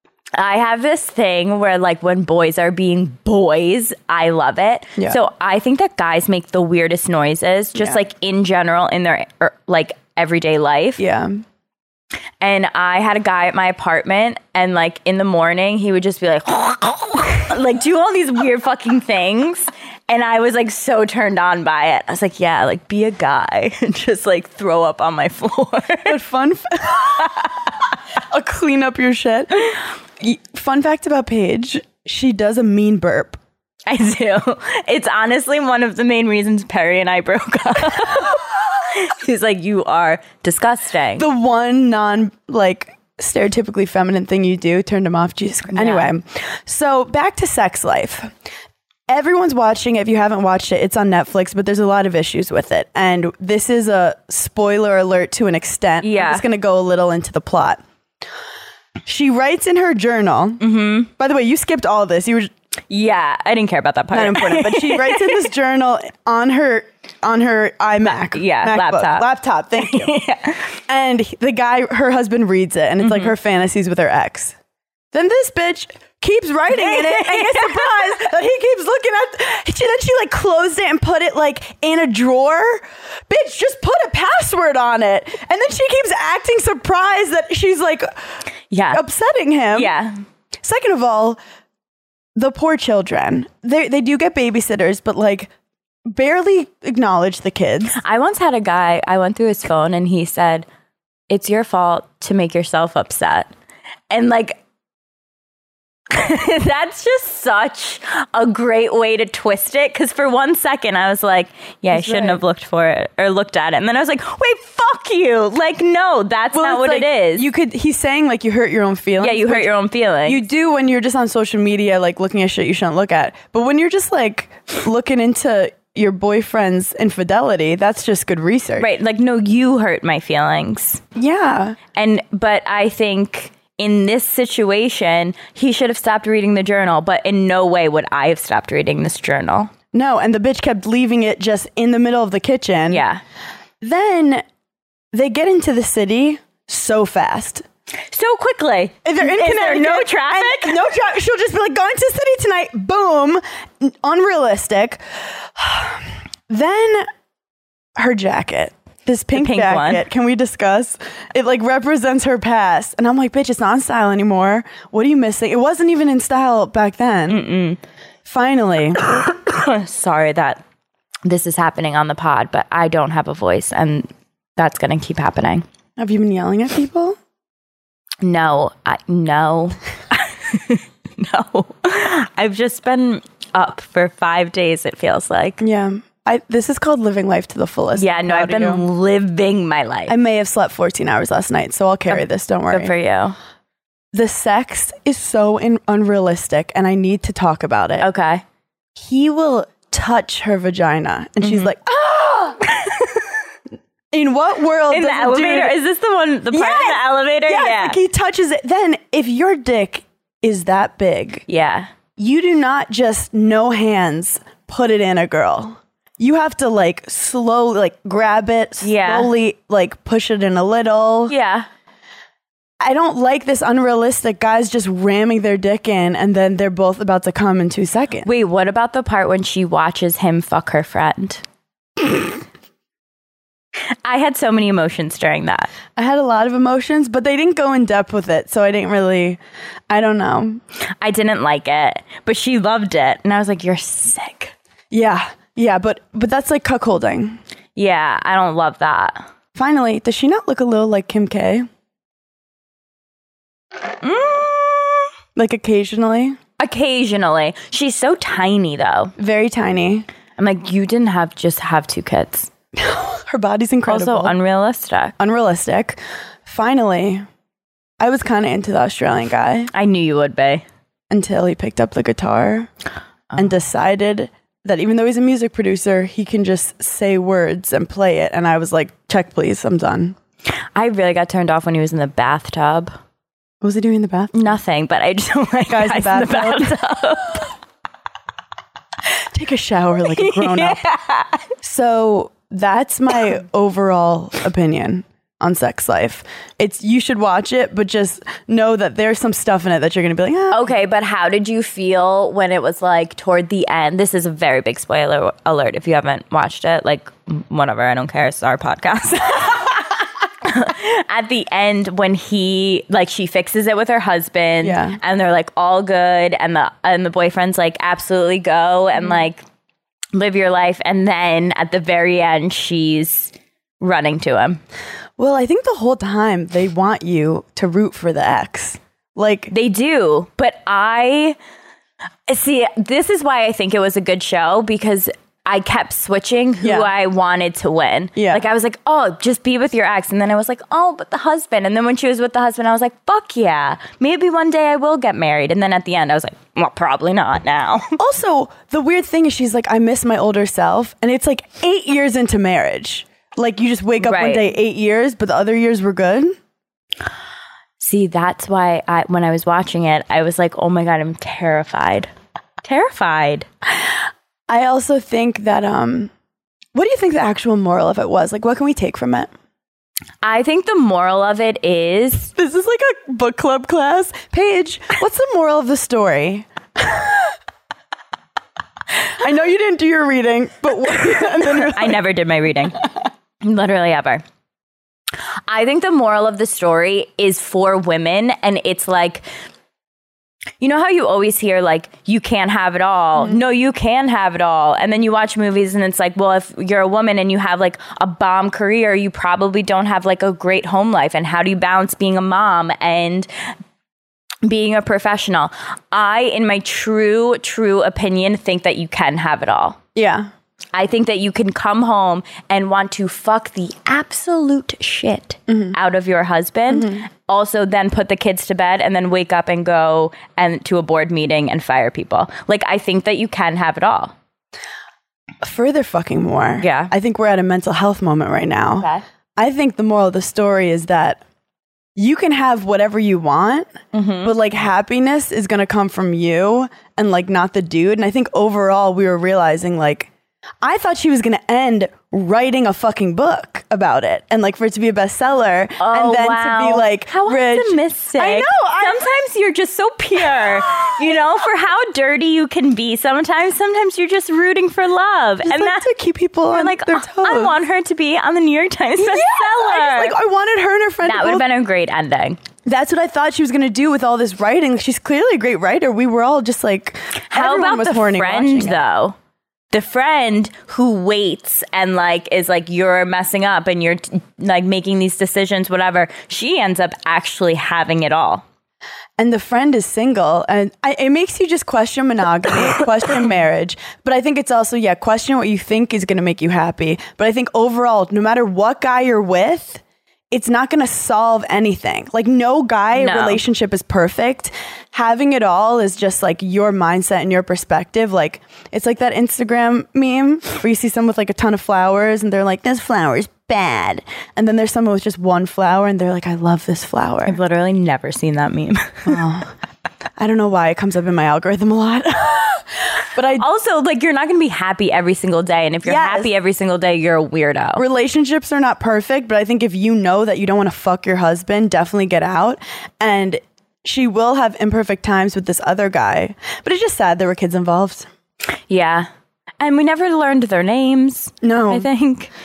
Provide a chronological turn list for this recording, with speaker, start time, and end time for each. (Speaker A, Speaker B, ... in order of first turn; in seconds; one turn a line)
Speaker A: 0.4-11.0
Speaker B: 7.8-8.0
Speaker B: 11.0-11.4
Speaker A: 12.4-26.2
Speaker B: 26.1-27.5
Speaker A: 27.2-27.5
Speaker B: 28.2-29.7
Speaker B: 30.2-33.4
Speaker A: 33.9-41.3
Speaker B: 41.2-48.3
Speaker A: 45.7-46.1
Speaker B: 49.1-57.8
Speaker A: 56.0-56.5
Speaker B: 59.1-60.6
Speaker A: 60.6-61.1
Speaker B: 61.2-62.5
Speaker A: 62.9-65.5
Speaker B: 64.1-70.2
Speaker A: 68.3-69.3
Speaker A: 69.8-70.7
Speaker B: 70.9-74.5
Speaker A: 73.0-73.3
Speaker B: 75.1-88.1
Speaker A: 76.7-78.2
Speaker A: 88.7-89.0
Speaker B: 88.9-89.9
Speaker A: 89.7-90.2
Speaker B: 90.6-91.4
Speaker B: 92.4-95.5
Speaker B: 96.1-98.0
Speaker A: 98.0-100.7
Speaker A: 101.3-103.5
Speaker A: 104.1-104.6
Speaker A: 106.1-117.5
Speaker B: 111.9-112.4
Speaker B: 116.5-119.7
Speaker A: 119.2-120.4
Speaker B: 120.2-128.9
Speaker A: 128.8-131.0
Speaker B: 131.2-131.8
Speaker A: 131.9-139.7
Speaker B: 139.9-143.0
Speaker A: 142.9-143.2
Speaker B: 143.8-144.4
Speaker B: 145.1-147.7
Speaker A: 148.1-150.8
Speaker B: 149.1-157.1
Speaker B: 158.0-167.4
Speaker A: 159.3-160.0
Speaker A: 167.3-167.8
Speaker B: 168.3-169.0
Speaker A: 169.1-170.6
Speaker A: 171.2-175.7
Speaker B: 176.0-177.2
Speaker A: 178.2-185.6
Speaker B: 185.6-188.8
Speaker A: 188.0-190.2
Speaker B: 190.1-192.9
Speaker A: 192.1-193.4
Speaker B: 194.1-198.1
Speaker A: 198.0-198.4
Speaker B: 199.0-202.7
Speaker A: 201.4-201.7
Speaker A: 202.7-203.2
Speaker B: 204.1-205.8
Speaker A: 204.9-208.0
Speaker B: 206.5-211.5
Speaker A: 211.5-211.9
Speaker B: 212.2-221.3
Speaker A: 218.8-219.3
Speaker A: 221.3-221.7
Speaker B: 222.8-228.3
Speaker A: 228.2-231.4
Speaker A: 234.1-235.7
Speaker B: 235.9-240.6
Speaker A: 241.0-244.5
Speaker B: 244.9-247.4
Speaker A: 247.8-249.2
Speaker B: 249.6-251.7
Speaker A: 254.0-255.1
Speaker B: 255.4-256.4
Speaker A: 256.6-259.1
Speaker B: 259.2-260.1
Speaker A: 260.4-262.5
Speaker B: 262.8-264.4
Speaker A: 263.9-265.1
Speaker B: 265.2-267.2
Speaker B: 268.0-269.7
Speaker A: 269.7-270.6
Speaker B: 271.1-272.7
Speaker B: 273.4-280.2
Speaker A: 280.8-282.9
Speaker B: 283.6-284.5
Speaker A: 284.3-287.5
Speaker B: 285.7-286.8
Speaker B: 289.3-290.8
Speaker A: 290.1-291.4
Speaker B: 291.6-300.7
Speaker A: 300.5-319.4
Speaker B: 314.6-315.0
Speaker A: 320.1-324.6
Speaker B: 325.2-329.5
Speaker A: 329.5-331.4
Speaker A: 332.3-348.0
Speaker B: 336.6-336.9
Speaker B: 338.2-338.4
Speaker B: 348.0-356.4
Speaker A: 354.0-354.5
Speaker A: 357.8-362.1
Speaker A: 362.6-363.5
Speaker B: 364.5-366.1
Speaker B: 366.7-369.3
Speaker A: 370.2-372.3
Speaker B: 372.4-377.4
Speaker B: 379.1-382.0
Speaker A: 381.3-382.8
Speaker A: 383.4-384.2
Speaker A: 385.5-389.2
Speaker A: 390.6-403.3
Speaker A: 404.4-409.8
Speaker B: 409.9-410.3
Speaker A: 410.7-424.1
Speaker B: 415.5-415.8
Speaker B: 416.7-417.1
Speaker B: 425.4-431.2
Speaker A: 426.6-426.9
Speaker B: 432.0-440.1
Speaker A: 433.9-434.4
Speaker B: 440.6-449.1
Speaker A: 445.8-455.9
Speaker B: 450.2-451.2
Speaker B: 455.4-457.6
Speaker A: 456.5-460.1
Speaker B: 459.0-461.4
Speaker A: 461.0-462.4
Speaker B: 462.7-468.8
Speaker A: 467.3-469.1
Speaker A: 469.7-478.4
Speaker B: 479.2-507.4
Speaker A: 492.9-493.4
Speaker A: 507.3-509.2
Speaker B: 509.1-509.5
Speaker B: 510.2-513.5
Speaker A: 513.4-517.8
Speaker B: 515.8-516.3
Speaker B: 517.8-528.1
Speaker A: 528.7-529.1
Speaker A: 529.6-532.3
Speaker B: 531.4-531.9